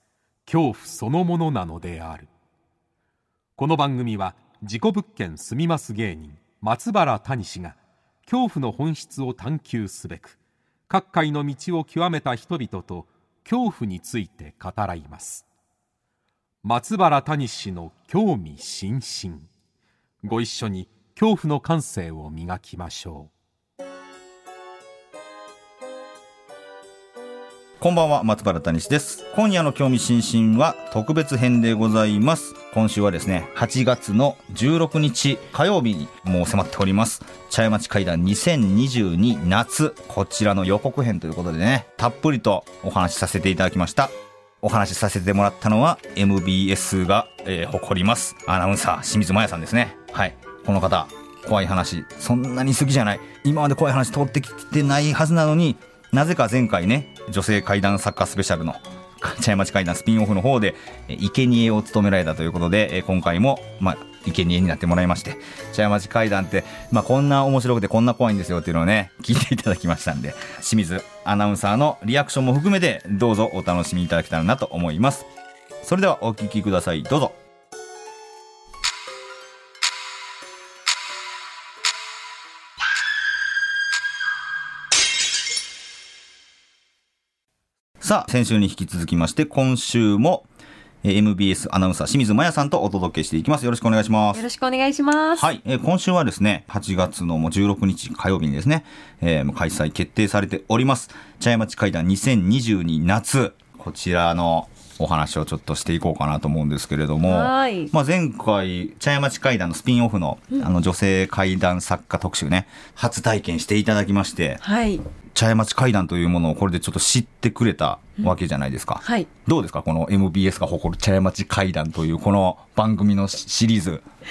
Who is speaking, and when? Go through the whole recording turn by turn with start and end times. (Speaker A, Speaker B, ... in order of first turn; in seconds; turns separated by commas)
Speaker A: 0.5-2.3, Speaker A: 3.6-10.4, Speaker A: 10.9-15.5, Speaker A: 16.6-19.5, Speaker A: 20.2-23.3, Speaker B: 27.8-75.3, Speaker B: 75.8-77.4, Speaker B: 88.0-90.5, Speaker B: 91.0-94.4, Speaker C: 94.3-95.5, Speaker B: 95.4-114.6, Speaker C: 107.2-107.9, Speaker C: 114.6-115.0, Speaker B: 115.3-124.0, Speaker C: 119.0-119.3